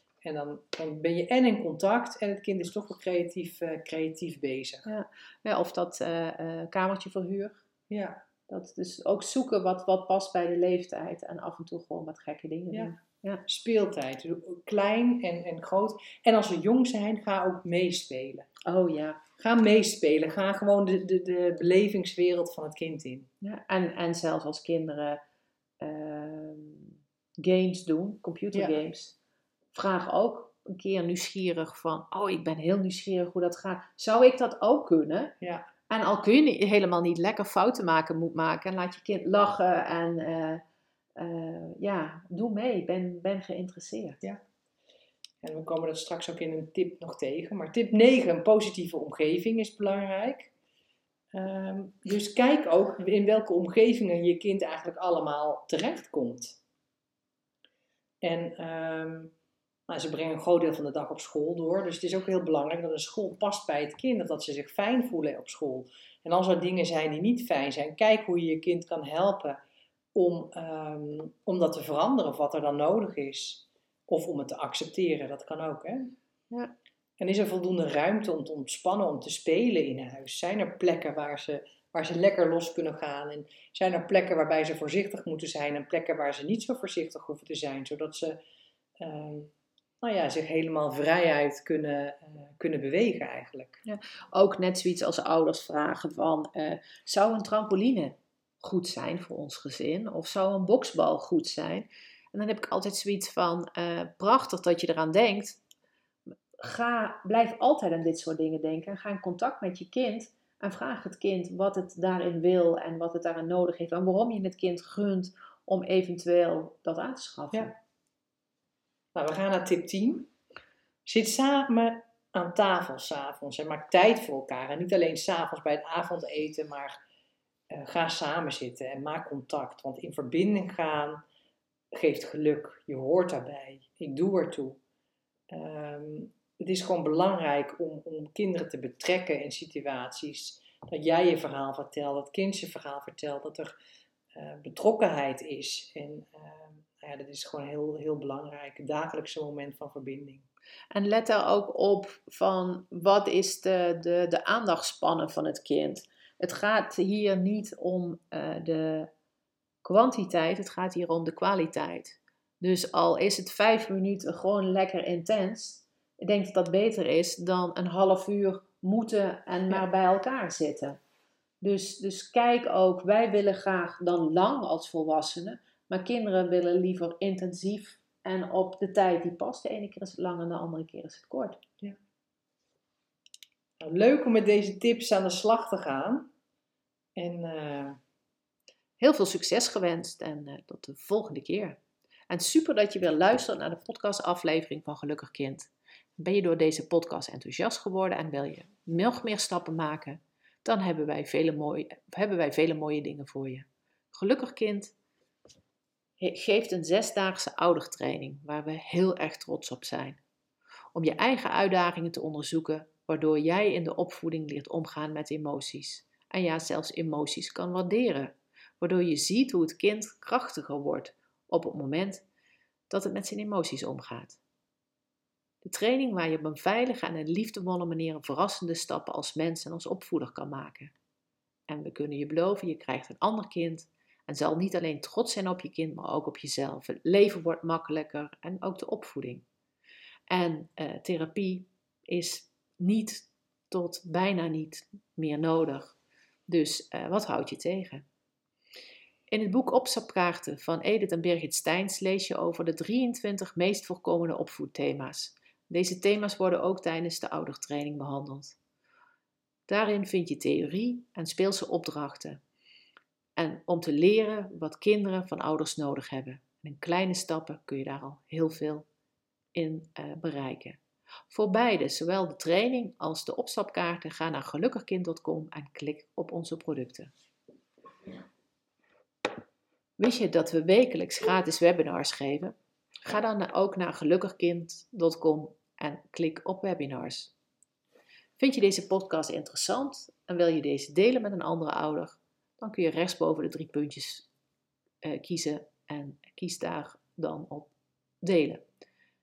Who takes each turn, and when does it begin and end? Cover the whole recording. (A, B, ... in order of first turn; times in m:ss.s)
0:00.2-0:04.9 A
0:04.9-0:07.6 B
0:07.9-0:08.2 A
0:08.5-0:13.4 B
0:13.5-0:18.5 A
0:18.6-0:19.2 B
0:19.4-0:23.3 A
0:23.4-0:25.2 B
0:25.8-0:29.2 B
0:28.5-0:28.8 A
0:29.7-0:35.3 B
0:35.4-0:35.7 A
0:35.9-0:40.6 B
0:41.2-0:44.2 B
0:45.4-0:50.5 A
0:51.3-0:56.6 A
0:58.2-0:59.3 A
0:59.9-1:09.6 A
1:10.2-1:16.2 A
1:17.2-1:28.4 A
1:29.0-1:29.5 A
1:30.0-1:33.8 A
1:33.8-1:45.6 B
1:46.6-1:57.8 B
1:59.2-2:00.3 A
2:01.1-2:07.0 A
2:07.7-2:11.2 A
2:11.9-2:14.8 A
2:15.5-2:23.8 A
2:24.3-2:30.5 A
2:30.9-2:39.1 B
2:39.8-2:51.0 B
2:51.6-3:01.6 B
3:03.8-3:06.3 A
3:07.2-3:08.0 A
3:09.0-3:25.0 B
3:26.2-3:30.2 B
3:30.9-3:42.2 B
3:42.9-3:44.4 B
3:45.6-3:50.9 B
3:51.7-3:59.4 B
4:00.3-4:06.0 B
4:06.5-4:08.0 B
4:09.3-4:18.6 B
4:19.7-4:22.4 B
4:23.4-4:28.9 B
4:29.5-4:37.1 B
4:40.0-4:47.3 B
4:48.4-4:54.3 B
4:55.0-4:58.6 B